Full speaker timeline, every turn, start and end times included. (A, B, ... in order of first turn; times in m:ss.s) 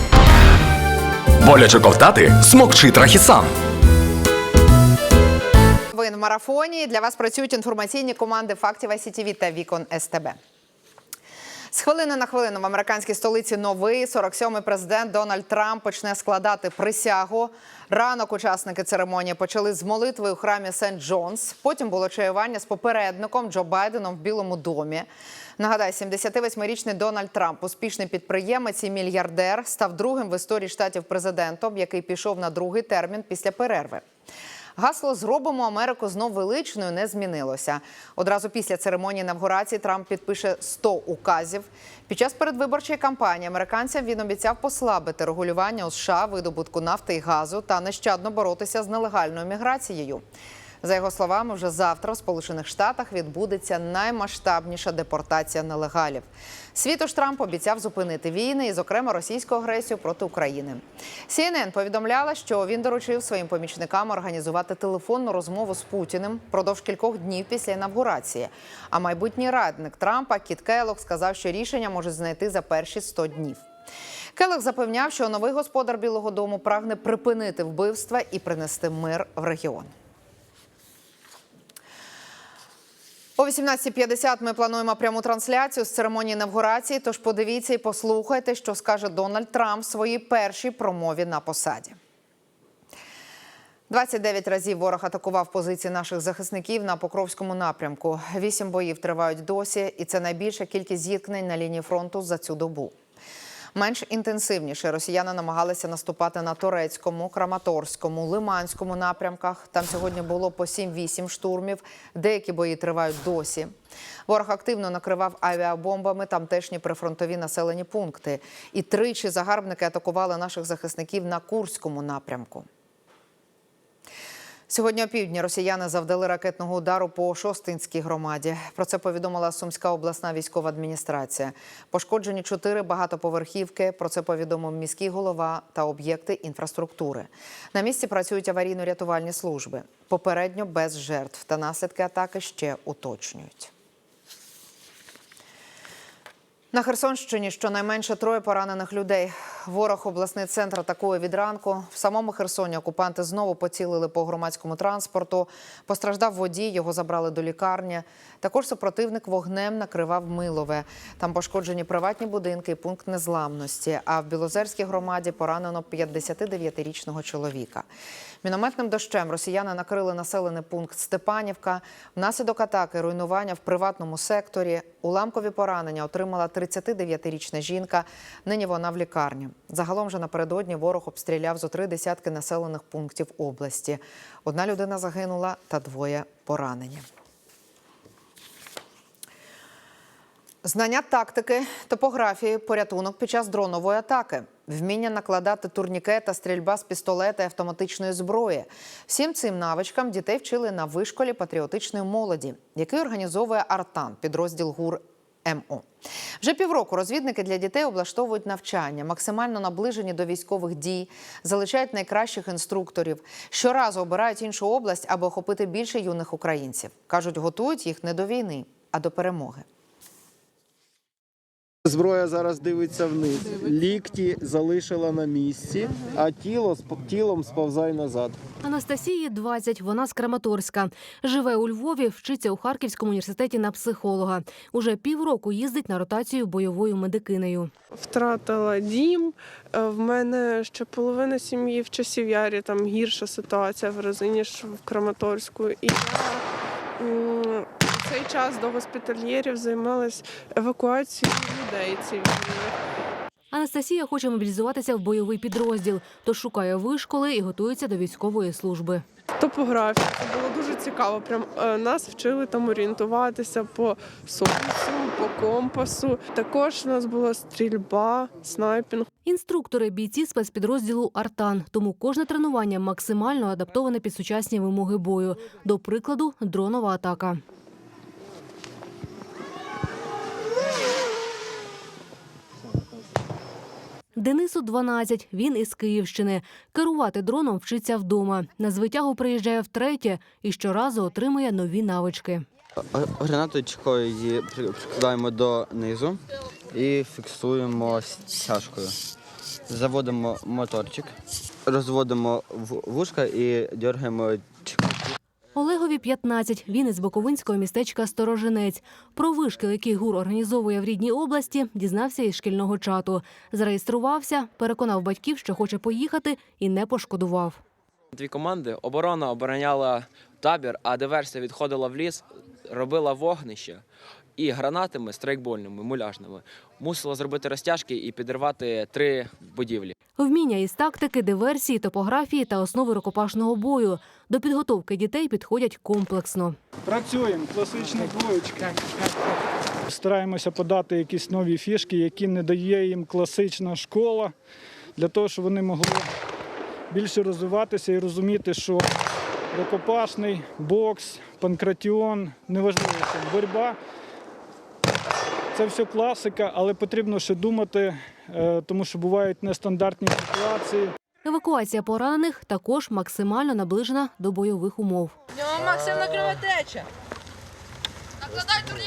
0:01.4-0:03.5 A
0:05.9-0:10.4 B
0:11.7-0:25.1 B
0:25.6-0:34.0 B
0:34.8-0:50.2 B
0:50.8-1:13.6 B
1:14.4-1:19.9 B
1:23.4-1:32.0 B
1:33.9-1:43.0 B
1:43.8-1:53.7 B
1:54.3-2:02.7 B
2:04.7-2:23.7 B
2:26.7-2:47.9 B
2:48.4-3:07.0 B
3:10.6-3:25.8 B
3:26.4-3:39.7 B
3:41.9-3:48.4 C
3:48.6-3:57.7 D
3:58.0-4:06.5 E
4:07.0-4:12.7 E
4:13.5-4:19.0 D
4:19.4-4:29.1 E
4:29.2-4:37.4 D
4:44.2-4:52.4 D
4:52.9-4:56.2 F
4:56.7-4:59.0 F
4:59.7-5:01.1 F
5:01.7-5:05.1 F
5:05.6-5:17.6 D
5:18.2-5:22.2 G
5:22.8-5:23.8 G
5:24.4-5:27.8 G
5:29.6-5:29.9 G
5:30.2-5:36.6 D
5:36.8-5:39.2 H
5:39.9-5:44.3 H
5:45.0-5:46.1 H
5:46.9-5:48.9 H
5:49.5-5:53.8 H
5:55.5-6:00.9 H
6:01.2-6:05.2 D